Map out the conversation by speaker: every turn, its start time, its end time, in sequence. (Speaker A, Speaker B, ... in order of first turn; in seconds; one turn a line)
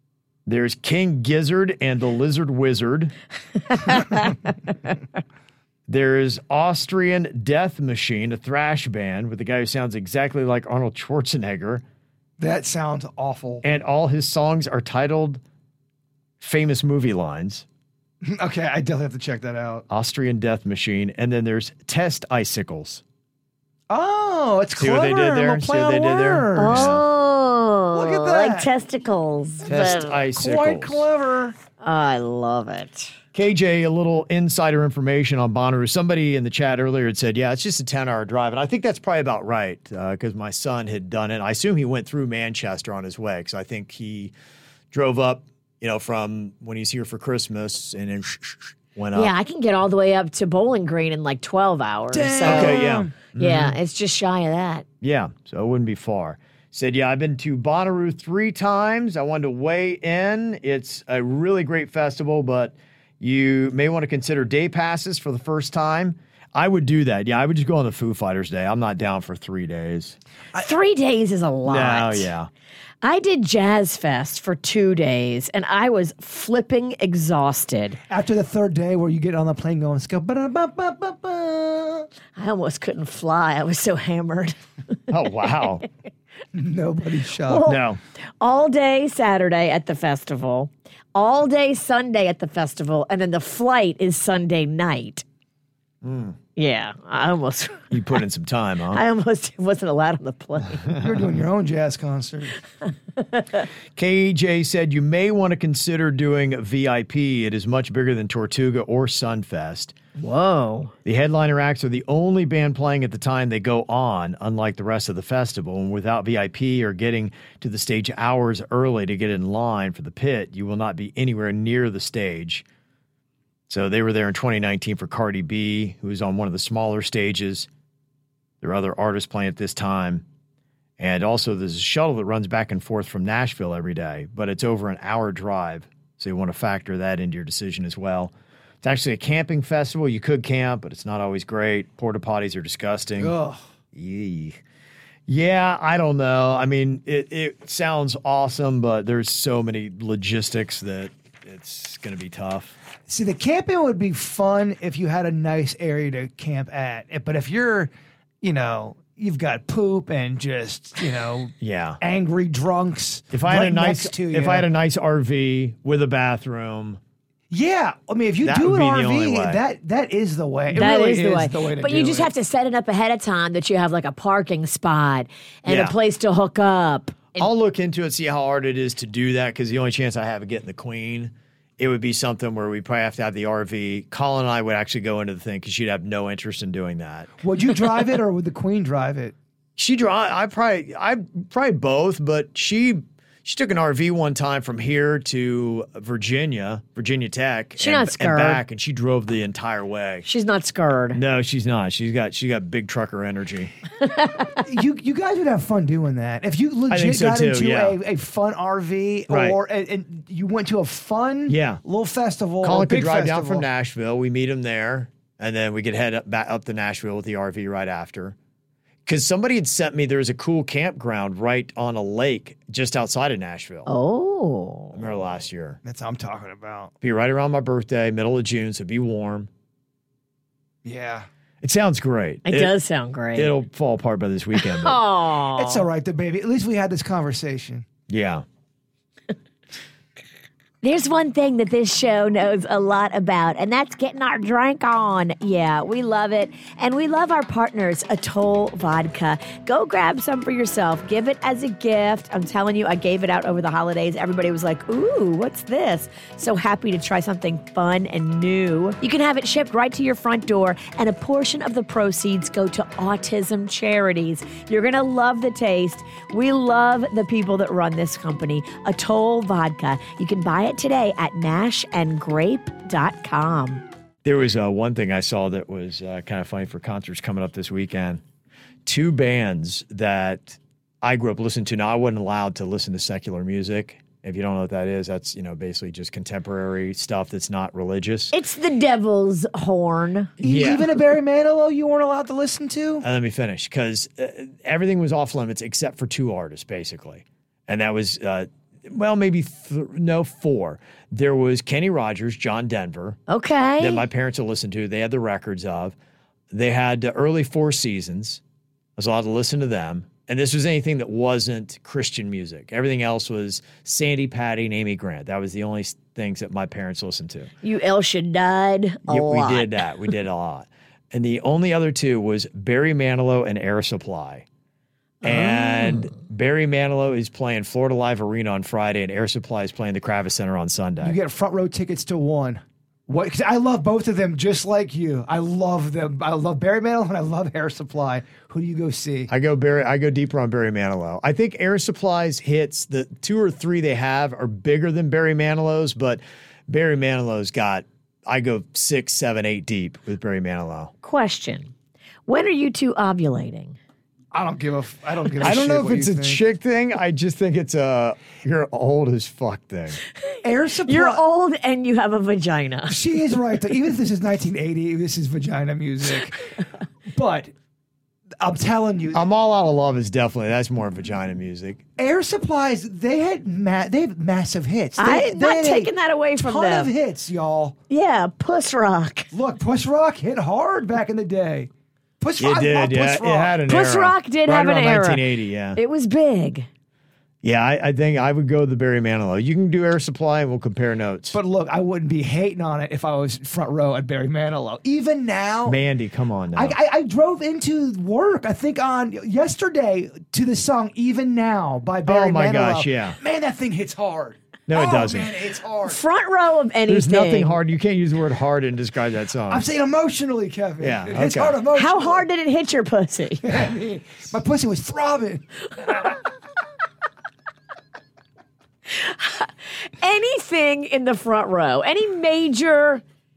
Speaker A: 0.5-3.1
Speaker B: 3.7-4.3
Speaker A: 5.9-11.8
Speaker C: 12.4-13.6
Speaker A: 13.6-15.4
Speaker A: 16.4-17.7
Speaker C: 18.2-19.9
Speaker A: 19.9-23.0
Speaker C: 23.9-26.9
Speaker A: 24.8-27.0
Speaker B: 26.6-30.2
Speaker C: 27.9-28.7
Speaker C: 29.6-31.6
Speaker A: 29.7-31.1
Speaker B: 31.8-33.1
Speaker A: 33.3-44.3
Speaker A: 44.9-49.3
Speaker B: 49.1-52.9
Speaker C: 52.1-53.1
Speaker A: 52.4-53.8
Speaker B: 53.4-54.9
Speaker A: 55.0-70.2
Speaker B: 70.5-72.3
Speaker A: 71.7-72.5
Speaker B: 73.0-78.0
Speaker C: 78.1-82.1
Speaker B: 82.4-84.6
Speaker A: 85.1-85.8
Speaker C: 86.5-87.7
Speaker B: 87.5-87.8
Speaker A: 87.7-88.0
Speaker B: 88.4-95.2
Speaker A: 96.0-96.4
Speaker B: 96.6-97.9
Speaker A: 97.9-99.0
Speaker B: 98.9-100.9
Speaker C: 101.0-102.6
Speaker B: 103.2-103.6
Speaker A: 104.0-109.9
Speaker B: 110.2-110.9
Speaker A: 111.0-122.7
Speaker A: 123.7-127.7
Speaker A: 128.6-130.2
Speaker A: 131.0-143.4
Speaker C: 143.2-143.6
Speaker A: 143.9-144.6
Speaker A: 145.3-152.8
Speaker C: 153.1-157.9
Speaker C: 158.4-164.7
Speaker A: 161.6-162.0
Speaker A: 163.3-167.0
Speaker C: 167.5-172.3
Speaker A: 168.4-169.6
Speaker B: 170.7-177.5
Speaker A: 175.7-175.9
Speaker A: 177.4-187.3
Speaker C: 187.4-189.3
Speaker A: 189.8-200.3
Speaker B: 197.8-198.6
Speaker B: 200.2-201.2
Speaker A: 201.1-203.7
Speaker B: 204.0-204.6
Speaker C: 204.7-213.7
Speaker A: 206.9-208.0
Speaker A: 209.3-209.6
Speaker A: 211.5-211.8
Speaker A: 212.6-218.4
Speaker A: 219.1-223.9
Speaker B: 223.9-225.0
Speaker A: 224.9-225.8
Speaker C: 225.8-226.9
Speaker A: 227.0-229.5
Speaker C: 230.8-231.3
Speaker A: 231.6-232.7
Speaker B: 232.4-233.5
Speaker A: 233.3-235.0
Speaker B: 234.6-235.8
Speaker C: 235.6-237.9
Speaker A: 238.1-238.4
Speaker B: 240.8-273.9
Speaker A: 274.2-278.2
Speaker A: 278.9-288.3
Speaker B: 288.3-290.3
Speaker A: 290.4-291.0
Speaker C: 290.4-293.1
Speaker A: 293.0-303.2
Speaker B: 303.3-304.1
Speaker A: 303.8-306.0
Speaker A: 306.5-308.4
Speaker A: 309.0-317.5
Speaker B: 317.6-319.9
Speaker A: 319.1-324.5
Speaker A: 325.2-331.2
Speaker C: 331.0-339.3
Speaker A: 339.3-350.9
Speaker B: 351.0-351.7
Speaker B: 352.3-353.8
Speaker C: 354.3-356.4
Speaker A: 355.4-360.0
Speaker C: 360.4-361.2
Speaker B: 360.9-363.0
Speaker C: 362.9-366.5
Speaker C: 367.1-367.5
Speaker C: 368.4-369.3
Speaker A: 369.1-371.8
Speaker C: 372.0-377.8
Speaker B: 375.0-376.9
Speaker B: 377.9-379.3
Speaker C: 379.3-383.6
Speaker A: 382.4-385.8
Speaker B: 383.7-386.7
Speaker A: 387.4-391.4
Speaker C: 391.3-395.8
Speaker A: 395.6-396.8
Speaker C: 396.6-406.0
Speaker A: 402.1-403.2
Speaker A: 404.7-405.4
Speaker B: 405.8-407.6
Speaker A: 406.9-409.6
Speaker C: 409.5-412.3
Speaker A: 410.8-411.6
Speaker B: 411.7-413.5
Speaker C: 413.4-416.2
Speaker B: 418.9-423.0